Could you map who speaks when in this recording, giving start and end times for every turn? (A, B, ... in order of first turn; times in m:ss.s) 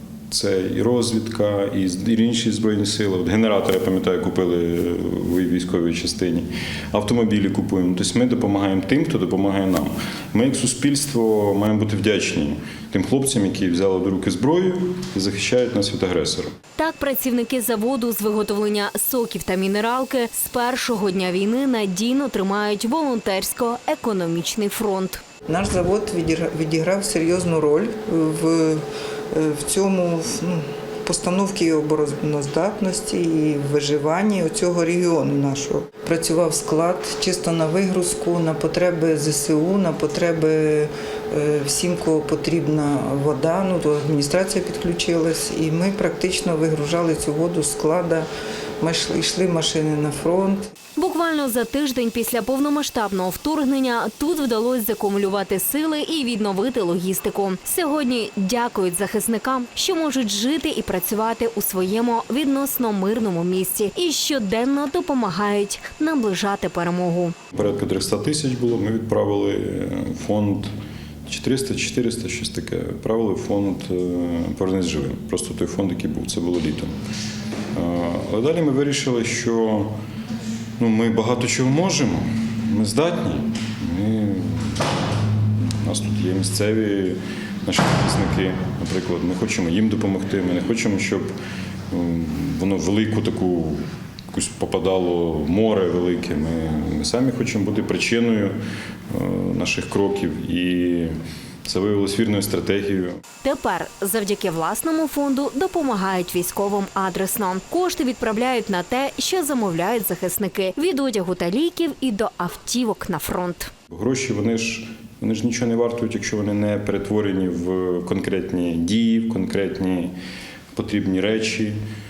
0:00.3-0:16.5 A
0:16.8-0:25.2 B
0:25.5-0:48.3 C
0:48.8-0:50.7 C
0:51.0-1:07.3 B
1:07.5-1:10.7 A
1:11.3-1:16.9 A
1:17.7-1:19.9 A
1:20.8-1:24.8 A
1:25.8-1:31.3 A
1:31.9-1:38.6 A
1:39.1-1:43.2 A
1:43.4-1:53.7 B
1:53.9-2:00.1 A
2:00.7-2:01.8 A